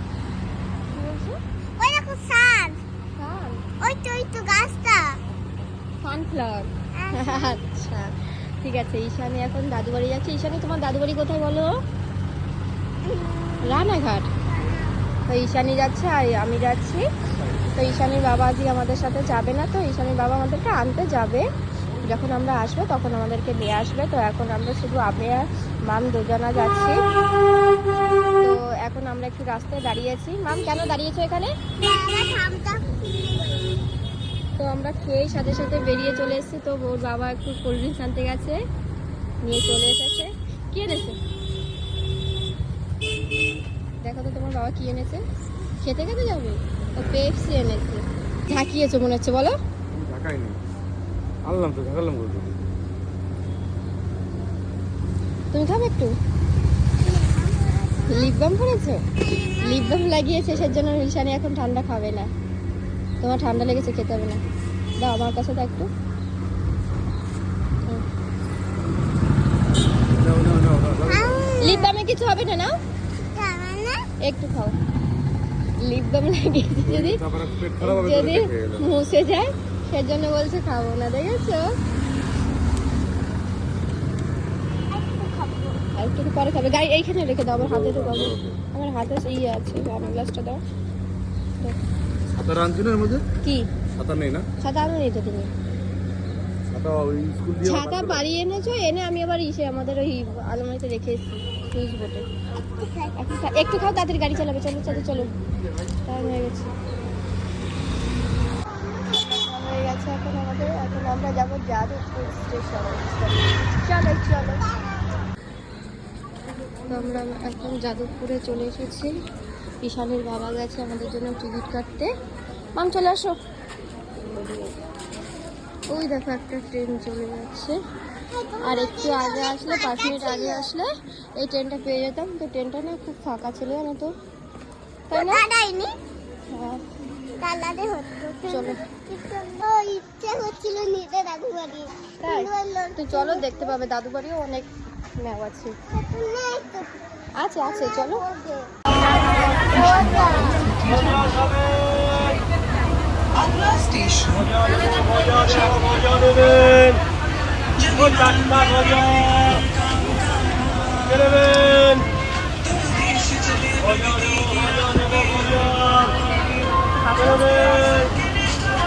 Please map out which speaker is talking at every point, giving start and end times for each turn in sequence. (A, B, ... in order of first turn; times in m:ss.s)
0:00.9-0:01.4 A
0:01.8-0:02.8 B
0:03.2-0:03.6 A
0:03.8-0:05.2 B
0:06.0-0:11.7 A
0:07.0-0:07.6 B
0:13.0-0:13.9 B
0:13.6-0:14.3 A
0:14.5-0:15.0 B
0:15.3-0:17.0 A
0:17.7-0:21.4 A
0:22.0-0:27.0 A
0:28.4-0:31.5 A
0:31.8-0:33.8 B
0:34.6-0:38.6 A
0:39.4-0:41.2 A
0:44.0-0:45.2 A
0:45.8-0:49.6 A
0:49.9-0:50.6 C
0:51.4-0:52.6 C
0:55.5-0:56.1 A
0:57.0-0:58.3 B
0:58.1-0:59.0 A
0:59.3-1:00.0 B
0:59.6-1:02.3 A
1:03.2-1:04.4 A
1:05.0-1:05.9 A
1:10.1-1:11.4 C
1:11.1-1:11.9 B
1:11.6-1:12.7 A
1:13.3-1:14.0 B
1:14.2-1:14.8 A
1:15.8-1:17.2 A
1:16.8-1:18.9 C
1:17.8-1:21.7 A
1:24.9-1:25.8 B
1:26.0-1:30.6 A
1:27.5-1:28.6 C
1:32.3-1:33.2 C
1:34.0-1:34.4 C
1:34.6-1:35.5 A
1:36.7-1:38.2 C
1:37.6-1:42.2 A
1:42.8-1:43.2 B
1:43.2-1:45.3 A
1:46.1-1:46.7 A
1:48.9-1:54.6 A
1:56.9-1:59.1 A
1:59.8-2:02.1 A
2:02.8-2:03.4 A
2:04.2-2:04.7 A
2:05.9-2:07.8 A
2:08.3-2:10.7 B
2:08.6-2:14.1 A
2:15.1-2:15.4 A
2:15.1-2:16.0 B
2:16.5-2:16.8 A
2:17.4-2:23.8 B
2:18.4-2:18.8 A
2:22.2-2:25.8 A
2:25.9-2:26.9 B
2:27.4-2:28.2 A
2:27.6-2:31.3 B
2:29.7-2:31.2 A
2:34.6-2:37.0 B
2:41.4-2:41.9 A
2:45.6-2:46.1 A
2:46.9-2:48.1 A